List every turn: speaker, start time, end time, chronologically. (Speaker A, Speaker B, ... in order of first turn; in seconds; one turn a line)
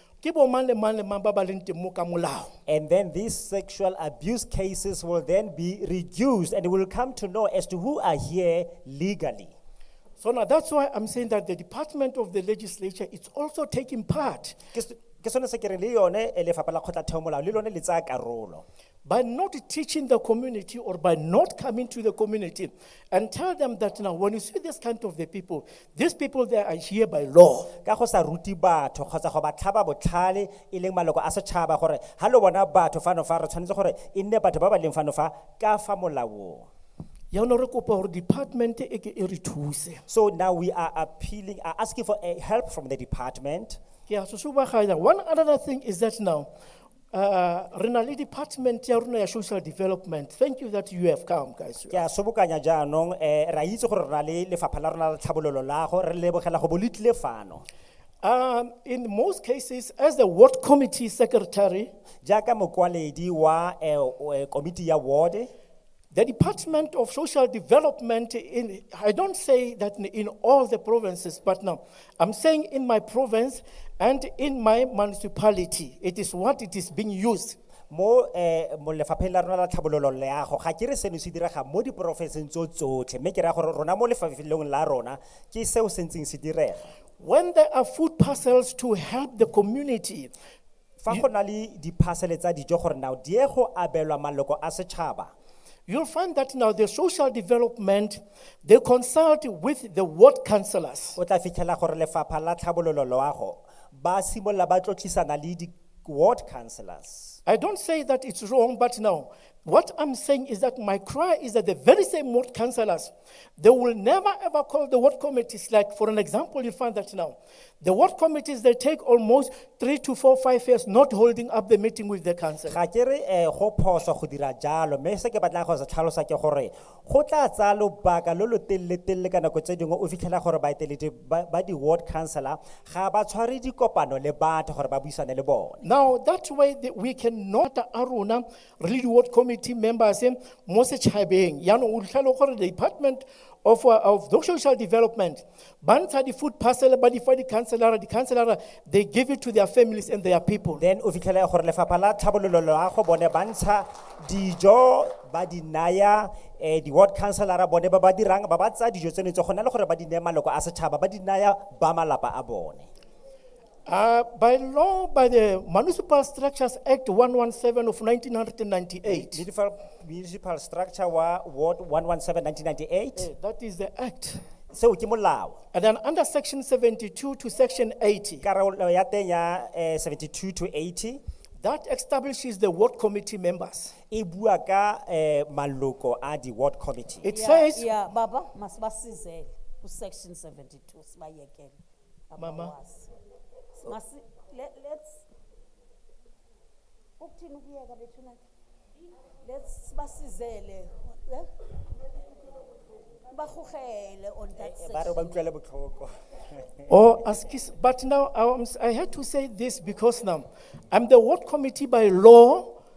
Speaker A: 0.2-2.5
Speaker B: 2.7-9.5
Speaker A: 10.2-14.6
Speaker B: 14.7-18.6
Speaker A: 19.1-27.7
Speaker B: 27.9-36.7
Speaker A: 37.3-40.0
Speaker B: 40.1-43.8
Speaker A: 44.1-46.5
Speaker A: 47.1-52.0
Speaker B: 51.9-57.6
Speaker A: 58.2-61.9
Speaker B: 62.2-65.5
Speaker A: 66.1-77.6
Speaker B: 77.9-86.9
Speaker A: 87.2-90.3
Speaker B: 91.0-95.3
Speaker A: 95.9-101.2
Speaker B: 101.2-107.4
Speaker A: 107.5-122.8
Speaker B: 122.7-135.8
Speaker A: 135.8-150.8
Speaker B: 150.8-162.9
Speaker A: 163.9-169.4
Speaker B: 169.1-173.3
Speaker A: 173.2-174.4
Speaker B: 174.7-175.6
Speaker A: 175.7-178.4
Speaker B: 178.4-181.2
Speaker A: 181.6-183.9
Speaker B: 184.1-187.3
Speaker A: 187.2-188.0
Speaker C: 187.3-191.8
Speaker C: 192.3-193.1
Speaker A: 192.4-192.8
Speaker C: 193.8-195.3
Speaker C: 197.2-198.4
Speaker C: 199.4-201.5
Speaker C: 203.3-205.5
Speaker B: 204.6-206.9
Speaker A: 206.9-212.7